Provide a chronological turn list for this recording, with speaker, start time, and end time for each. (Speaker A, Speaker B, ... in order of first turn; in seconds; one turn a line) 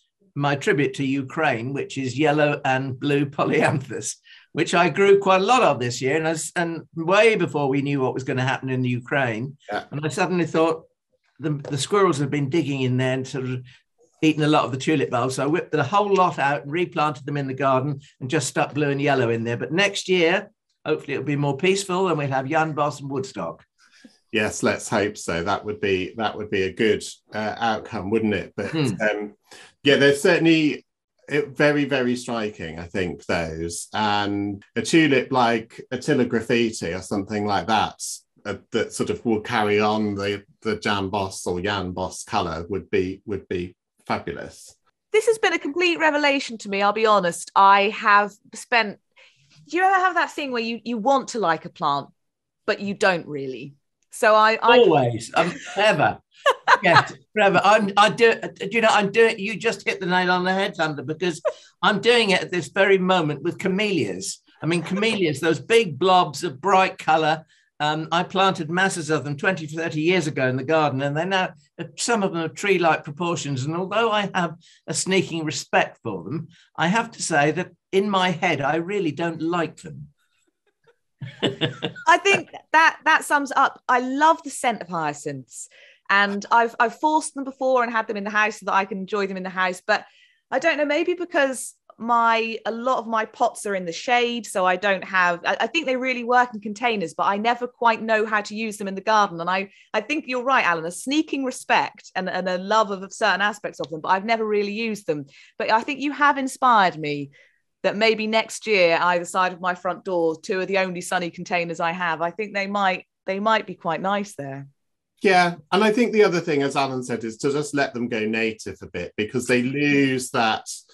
Speaker A: 0.4-10.9
Speaker A: 11.4-13.6
Speaker A: 14.2-23.6
Speaker B: 24.3-44.8
Speaker A: 28.7-29.0
Speaker C: 45.1-49.0
Speaker C: 49.7-52.1
Speaker C: 52.7-54.9
Speaker A: 54.7-80.1
Speaker A: 81.4-81.9
Speaker C: 82.0-107.3
Speaker C: 107.8-114.7
Speaker B: 115.2-120.7